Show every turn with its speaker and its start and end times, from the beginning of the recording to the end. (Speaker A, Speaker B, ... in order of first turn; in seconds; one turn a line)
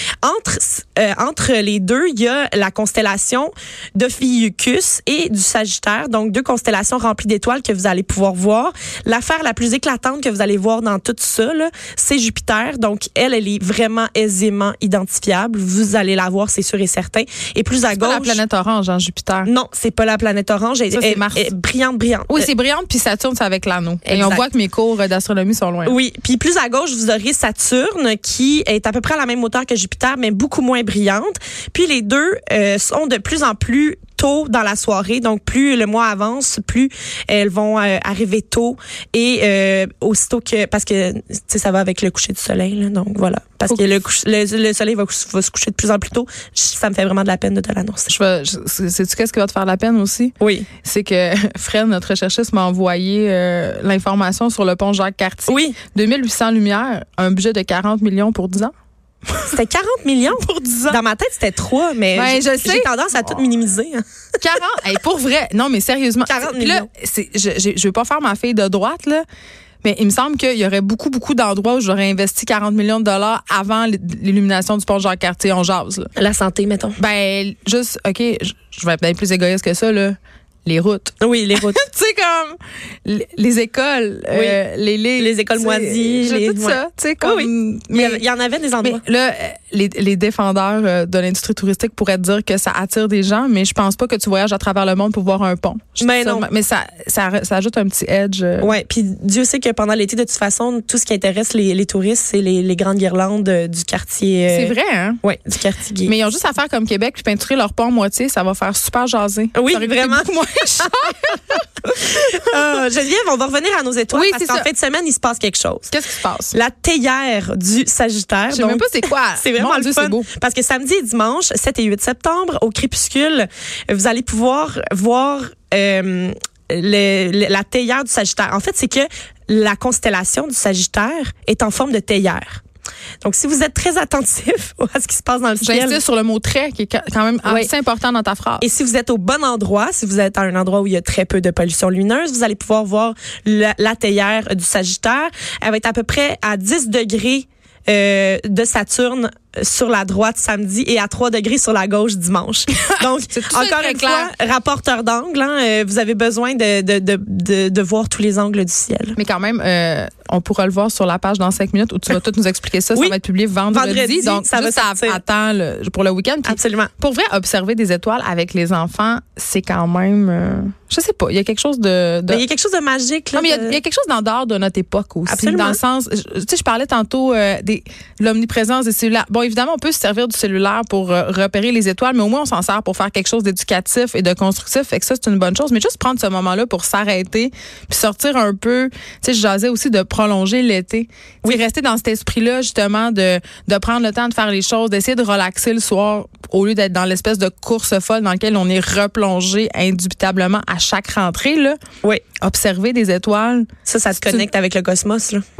Speaker A: 0.2-18.4
Speaker B: 17.9-19.5
Speaker A: 19.4-22.5
Speaker B: 20.9-21.5
Speaker B: 22.3-26.0
Speaker A: 24.0-24.4
Speaker A: 25.8-48.1
Speaker B: 48.1-58.7
Speaker A: 50.4-50.7
Speaker A: 55.5-55.8
Speaker B: 59.3-59.6
Speaker A: 59.5-64.0
Speaker B: 60.3-61.0
Speaker B: 62.1-63.4
Speaker B: 64.4-69.2
Speaker A: 66.2-66.9
Speaker B: 69.8-76.1
Speaker A: 76.2-77.0
Speaker B: 77.0-88.2
Speaker A: 81.2-81.8
Speaker A: 84.3-84.6
Speaker A: 85.2-89.0
Speaker B: 88.8-98.7
Speaker A: 96.0-96.5
Speaker A: 98.6-106.2
Speaker B: 104.5-105.2
Speaker B: 106.0-112.6
Speaker A: 109.5-111.2
Speaker A: 111.9-116.0
Speaker B: 114.1-114.7
Speaker B: 115.9-116.5
Speaker A: 116.5-132.6
Speaker B: 118.5-120.3
Speaker A: 133.2-136.0
Speaker B: 135.6-138.6
Speaker A: 137.4-137.7
Speaker A: 138.6-159.2
Speaker B: 152.7-154.3
Speaker B: 159.2-172.4
Speaker A: 163.7-165.2
Speaker A: 166.4-166.9
Speaker A: 172.3-173.8
Speaker B: 173.3-201.8
Speaker A: 175.2-175.8
Speaker B: 202.4-204.4
Speaker A: 203.8-205.4